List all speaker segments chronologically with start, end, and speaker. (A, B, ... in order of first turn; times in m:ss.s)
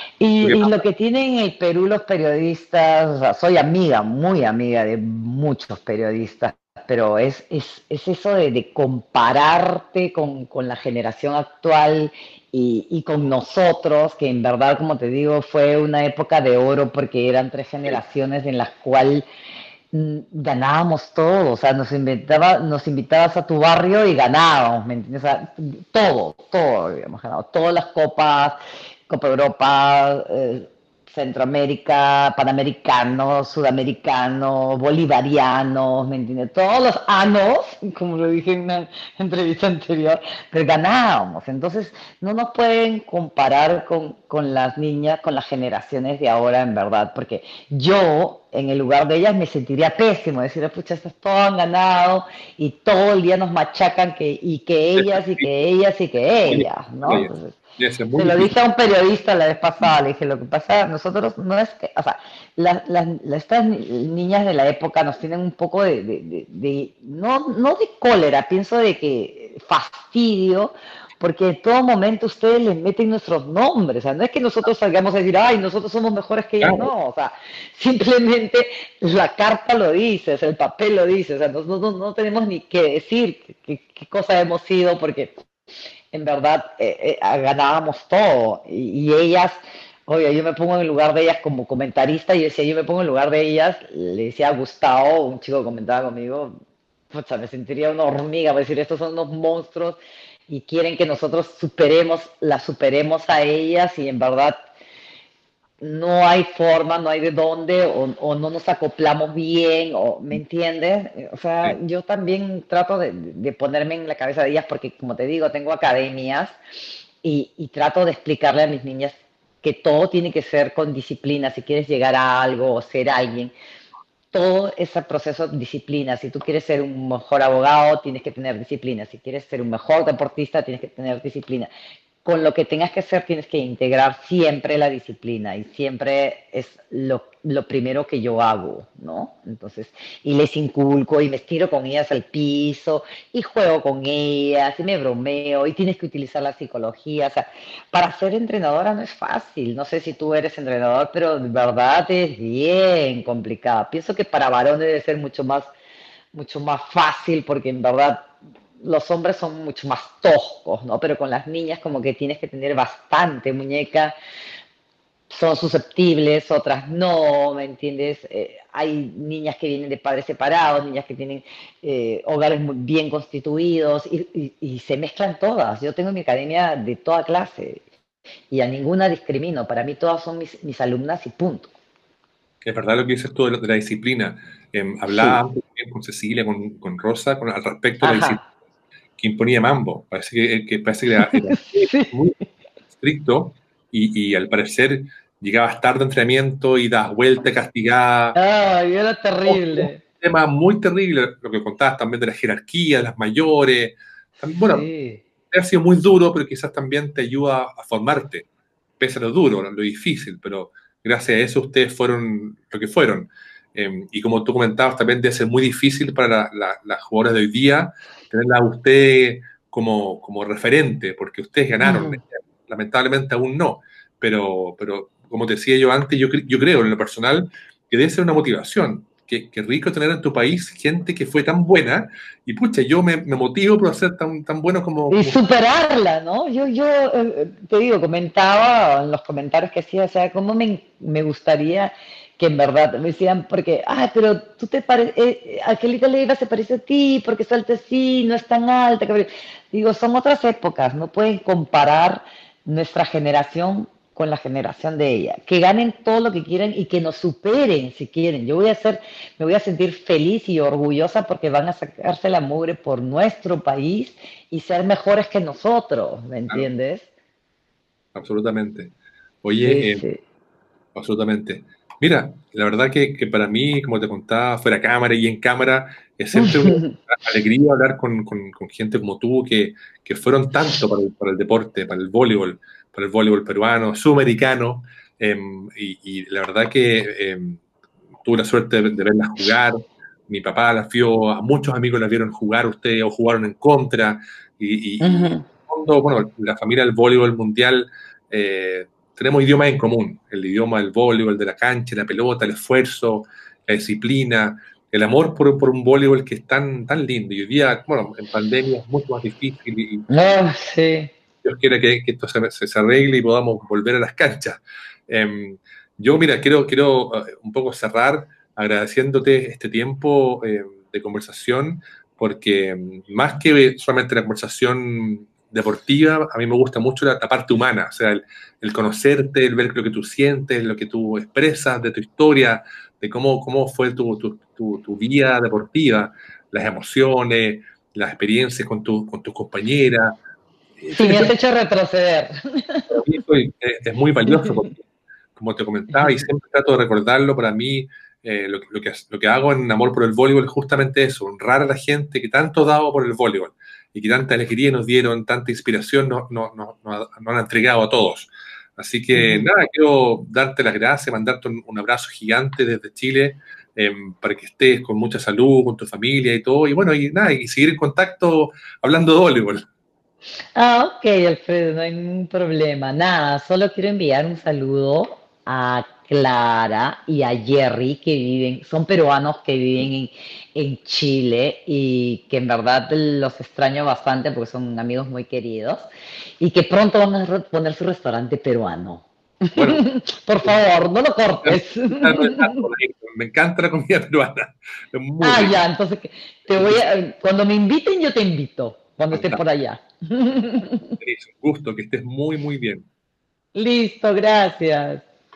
0:00.2-0:19.2 A
0:00.4-0:00.8 B
0:19.9-0:57.6 A
0:55.0-0:55.5 B
0:56.5-0:58.5 B
0:58.2-1:25.4 A
1:16.6-1:16.9 B
1:26.1-1:36.6 A
1:37.1-1:44.6 A
1:45.8-1:56.6 A
1:57.2-2:03.5 A
2:04.3-2:11.7 A
2:12.2-2:35.7 A
2:36.3-2:44.1 A
2:45.3-2:57.8 A
2:58.5-3:01.7 A
3:02.6-3:08.4 B
3:05.1-3:05.4 A
3:08.0-3:08.4 A
3:09.2-3:12.4 B
3:11.2-3:12.1 A
3:12.9-3:18.3 B
3:18.3-3:20.0 A
3:19.5-3:24.9 B
3:24.6-3:25.2 A
3:25.5-3:28.5 B
3:29.0-3:55.4 B
3:41.8-3:42.2 A
3:55.1-4:27.1 A
4:28.1-4:30.0 B
4:29.6-4:30.2 A
4:30.9-4:47.6 B
4:36.3-4:37.0 A
4:48.2-5:10.1 B
4:55.0-4:55.4 A
5:10.1-5:11.1 A
5:11.4-5:40.2 B
5:40.8-5:41.3 B
5:40.9-5:42.9 A
5:42.9-6:09.6 B
5:44.3-5:44.6 A
5:59.1-5:59.5 A
6:10.6-6:25.9 A
6:26.4-6:32.7 A
6:29.5-6:29.9 B
6:31.4-6:35.6 B
6:35.2-6:40.9 A
6:36.5-6:36.8 B
6:39.1-6:39.4 B
6:41.0-6:42.9 B
6:43.5-6:45.0 A